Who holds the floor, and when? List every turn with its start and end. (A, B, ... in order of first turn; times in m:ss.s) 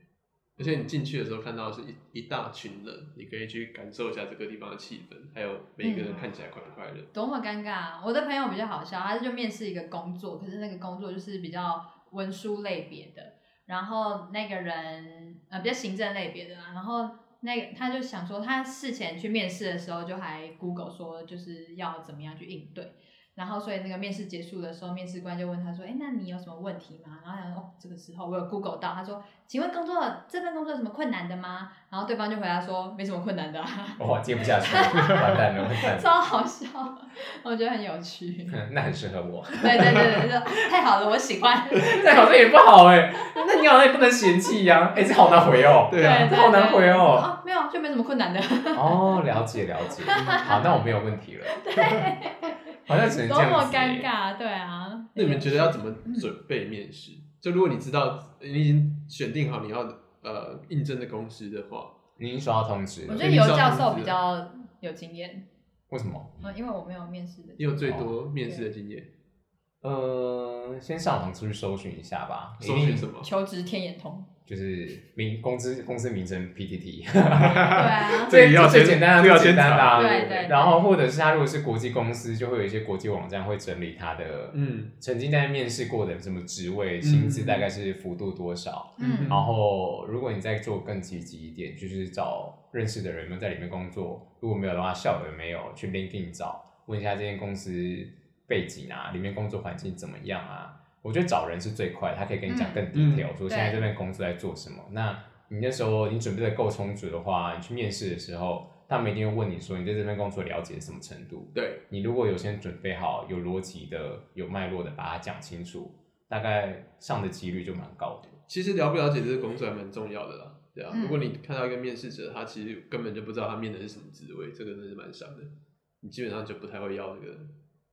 0:00.6-0:07.1 A
0:05.8-0:06.2 B
0:07.1-0:38.6 B
0:34.0-0:36.1 C
0:38.5-0:40.3 C
0:39.6-0:42.3 B
0:41.8-0:47.3 C
0:45.9-0:46.4 A
0:45.9-0:50.9 B
0:48.7-0:51.6 C
0:50.2-0:50.6 A
0:51.5-0:56.3 B
0:51.8-0:52.0 A
0:52.9-0:54.1 C
0:55.2-1:02.0 A
1:02.2-1:03.4 C
1:03.1-1:05.5 B
1:03.2-1:04.2 A
1:05.9-1:06.4 C
1:06.4-1:08.7 B
1:07.6-1:09.1 A
1:07.9-1:08.1 C
1:09.8-1:13.1 C
1:12.6-1:13.3 A
1:13.2-1:14.3 B
1:14.5-1:58.4 C
1:17.4-1:20.5 A
1:17.7-1:18.4 B
1:19.9-1:20.9 B
1:24.5-1:24.9 A
1:27.0-1:27.7 A
1:29.0-1:29.5 B
1:29.0-1:29.5 A
1:42.5-1:42.8 B
1:42.9-1:43.3 A
1:43.5-1:43.9 B
1:51.6-1:51.8 A
1:58.5-2:07.5 A
2:00.9-2:01.2 B